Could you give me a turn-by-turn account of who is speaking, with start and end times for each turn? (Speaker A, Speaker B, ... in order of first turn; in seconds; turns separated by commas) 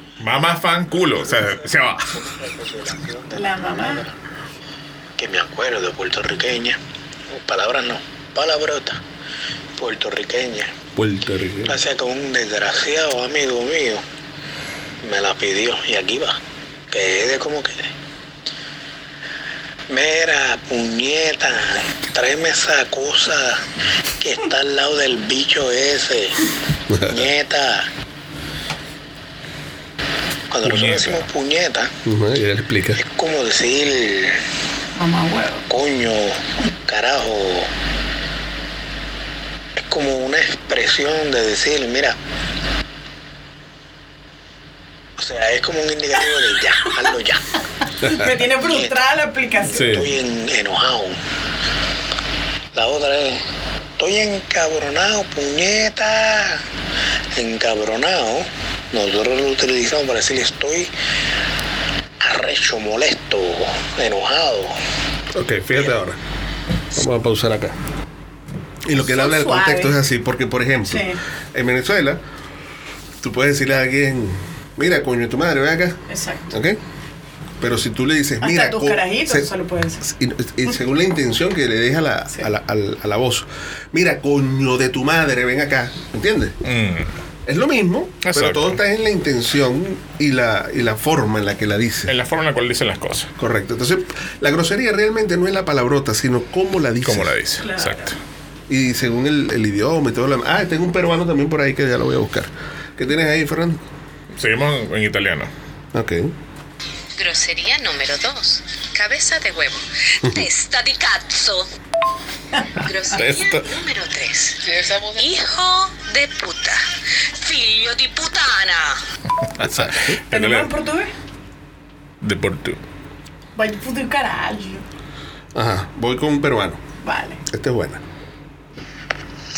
Speaker A: 0.2-2.1, Speaker B: 1.4-4.1, Speaker C: 3.3-4.0, Speaker B: 5.2-6.8, Speaker B: 7.3-9.0, Speaker B: 9.8-10.7, Speaker D: 10.9-11.8, Speaker B: 11.7-14.0, Speaker B: 15.0-16.4, Speaker B: 16.9-17.9, Speaker B: 19.9-23.6, Speaker B: 24.2-26.4, Speaker D: 26.9-27.2, Speaker B: 27.1-27.9, Speaker B: 30.5-31.9, Speaker D: 30.6-31.2, Speaker D: 32.0-33.0, Speaker B: 33.0-34.4, Speaker C: 35.0-35.6, Speaker B: 35.7-37.7, Speaker B: 39.8-42.1, Speaker B: 45.2-47.4, Speaker C: 48.0-50.0, Speaker B: 48.6-49.0, Speaker A: 49.7-50.0, Speaker B: 49.8-51.2, Speaker B: 52.7-53.4, Speaker B: 54.0-56.6, Speaker B: 57.4-60.9, Speaker B: 62.2-64.7, Speaker D: 65.3-66.2, Speaker D: 66.9-67.8, Speaker D: 68.8-72.2, Speaker C: 69.0-70.0, Speaker C: 70.9-71.2, Speaker D: 73.2-76.8, Speaker C: 76.1-76.5, Speaker D: 77.6-79.5, Speaker C: 78.4-80.0, Speaker D: 80.0-86.6, Speaker A: 86.6-87.1, Speaker D: 87.5-92.1, Speaker A: 88.2-88.8, Speaker A: 92.1-93.3, Speaker D: 93.4-97.3, Speaker A: 97.0-98.2, Speaker C: 97.6-98.1, Speaker D: 98.7-103.8, Speaker A: 104.4-105.5, Speaker D: 105.9-106.3, Speaker E: 107.1-111.7, Speaker E: 112.8-119.0, Speaker D: 113.1-113.6, Speaker A: 119.6-120.7, Speaker D: 119.6-120.2, Speaker C: 120.3-121.1, Speaker A: 122.2-122.8, Speaker C: 123.5-124.8, Speaker D: 125.5-126.8, Speaker C: 127.0-127.4, Speaker D: 127.5-128.0